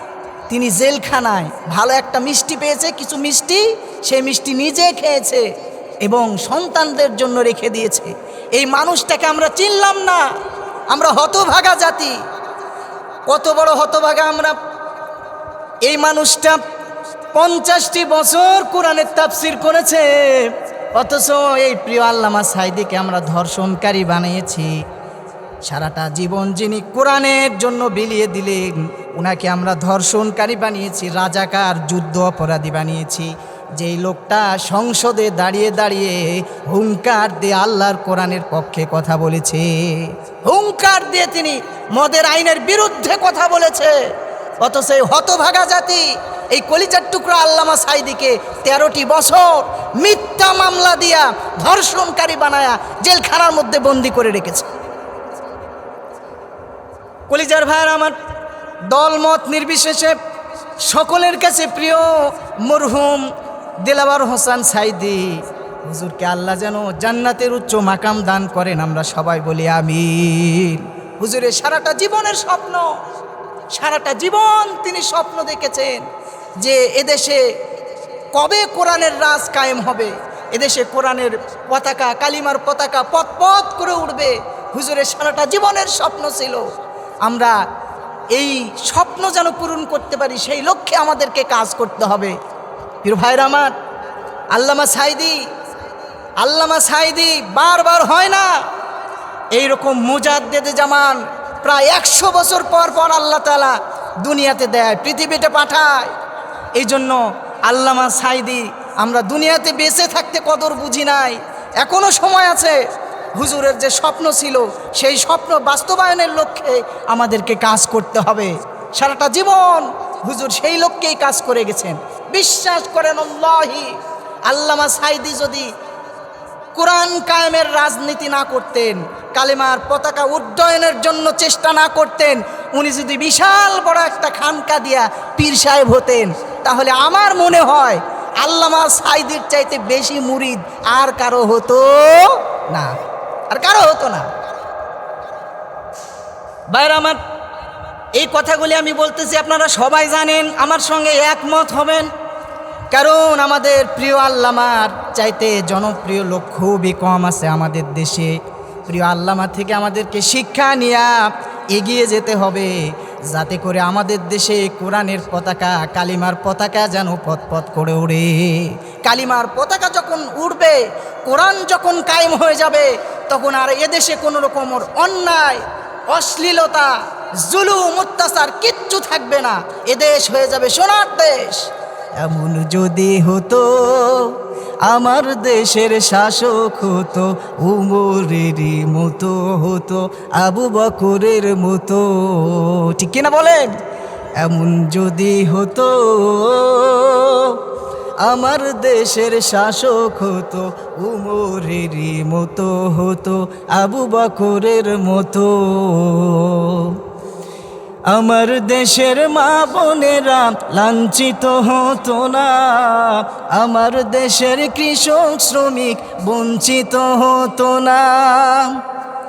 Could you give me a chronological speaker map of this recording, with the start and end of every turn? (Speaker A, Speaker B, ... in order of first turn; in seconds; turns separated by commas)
Speaker A: 0.5-5.5, Speaker A: 6.0-10.3, Speaker A: 10.9-12.2, Speaker A: 13.3-14.6, Speaker A: 15.9-16.6, Speaker A: 17.3-24.8, Speaker A: 25.6-44.1, Speaker A: 44.6-54.7, Speaker A: 57.3-58.2, Speaker A: 58.9-60.2, Speaker A: 60.9-63.3, Speaker A: 63.8-73.0, Speaker A: 73.7-76.1, Speaker A: 76.6-77.4, Speaker A: 78.3-86.7, Speaker A: 87.2-87.6, Speaker A: 88.3-92.4, Speaker A: 93.0-93.8, Speaker A: 94.5-95.5, Speaker A: 96.4-98.7, Speaker A: 99.5-106.1, Speaker A: 106.8-112.8, Speaker A: 113.3-125.7, Speaker A: 126.8-143.0, Speaker A: 143.5-144.3, Speaker A: 146.7-147.2, Speaker A: 148.1-152.1, Speaker A: 152.9-162.7, Speaker A: 163.3-193.7, Speaker A: 194.4-197.6, Speaker A: 198.2-207.0, Speaker A: 208.1-218.8